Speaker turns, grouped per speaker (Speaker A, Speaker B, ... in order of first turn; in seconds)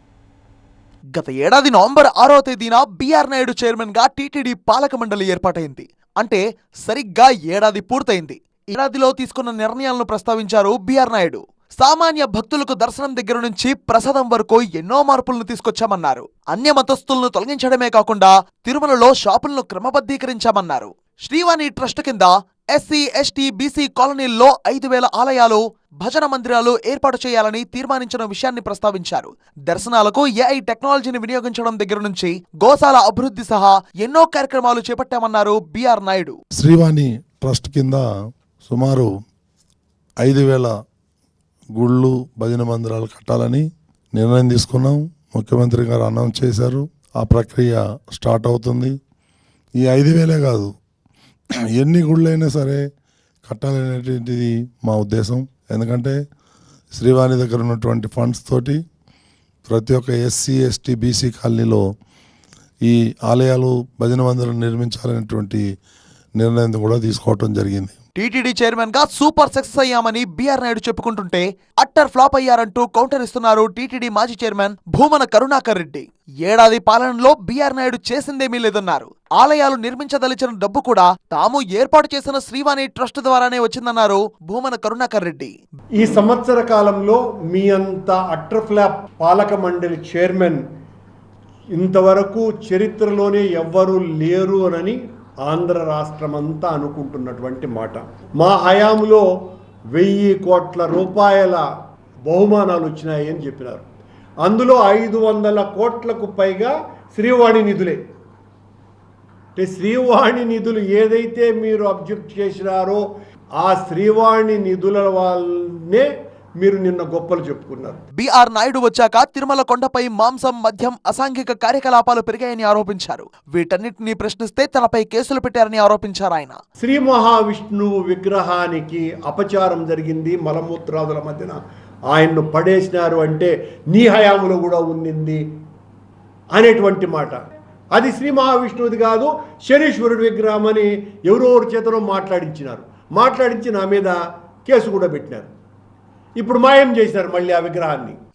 Speaker A: 1.1-36.4, 68.2-85.5, 118.1-126.6
Speaker B: 36.6-38.0, 38.6-39.1, 40.2-40.7, 41.8-48.9, 49.8-50.7, 51.8-52.8, 53.4-56.2, 56.9-58.8, 59.7-61.8, 62.8-65.6, 66.4-68.0
Speaker C: 86.0-90.6, 91.7-99.2, 99.9-101.6, 102.2-103.8, 104.4-108.0, 109.5-113.0, 113.6-116.1, 116.6-118.0, 126.8-131.6, 132.1-135.4, 136.5-137.4, 137.9-145.5, 146.4-148.2